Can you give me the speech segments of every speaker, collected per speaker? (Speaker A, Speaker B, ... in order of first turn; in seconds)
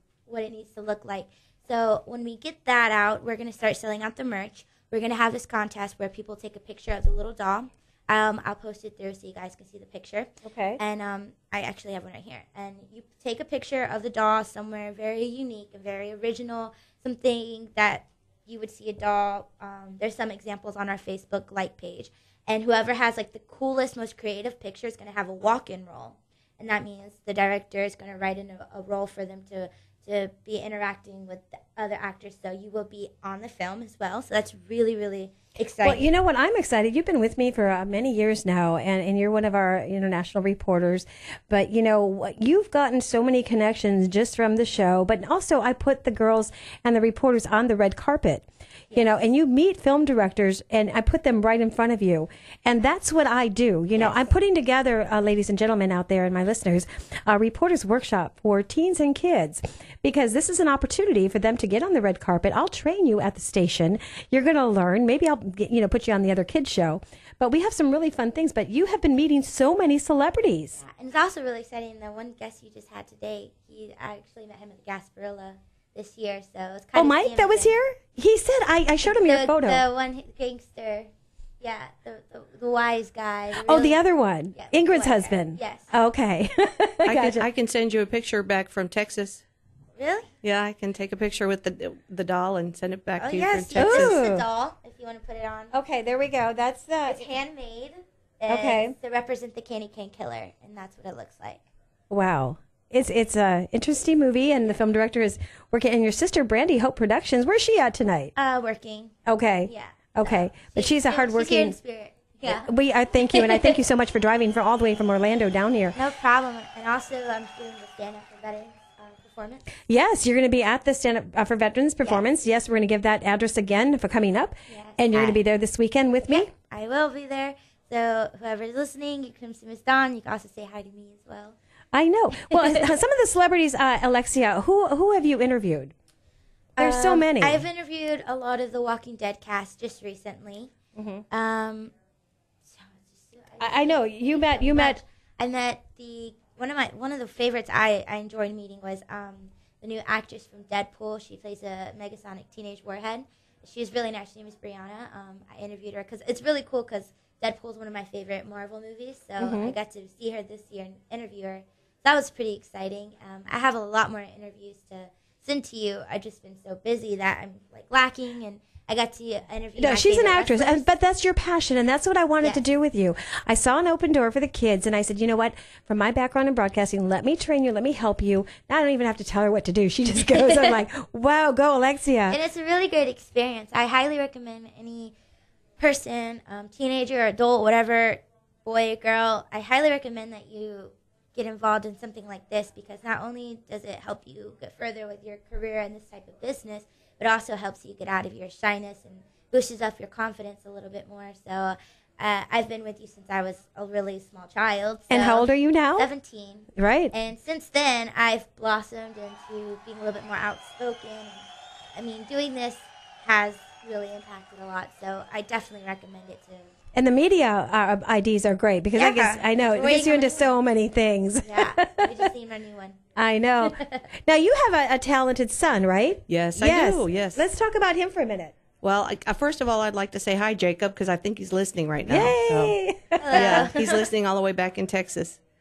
Speaker A: 0.3-36.1, 70.8-77.8, 79.0-81.1, 81.6-84.0, 84.5-85.9, 90.0-90.3, 93.2-95.7, 97.0-101.6, 108.3-109.1, 109.6-112.7, 113.3-113.7, 115.9-119.7, 124.7-125.4, 126.3-131.6, 132.6-132.8, 136.8-140.7, 141.3-141.9, 142.6-170.9, 180.4-180.7, 182.3-185.1, 185.8-216.7, 218.9-220.6, 221.4-223.0, 223.6-224.0, 233.2-233.7
Speaker B: 10.4-10.8, 35.8-70.8, 76.9-79.8, 83.6-87.4, 93.6-94.4, 95.7-97.3, 98.5-98.9, 102.1-108.3, 109.3-111.8, 112.5-116.0, 119.9-126.5, 131.9-135.9, 136.8-137.6, 140.9-141.2, 143.6-145.0, 159.4-159.7, 169.8-182.4, 205.1-206.1, 206.8-207.1, 216.9-222.1, 223.2-228.6, 232.1-233.7
Speaker C: 87.0-89.4, 90.4-94.2, 226.3-227.4, 228.8-232.8, 233.3-235.4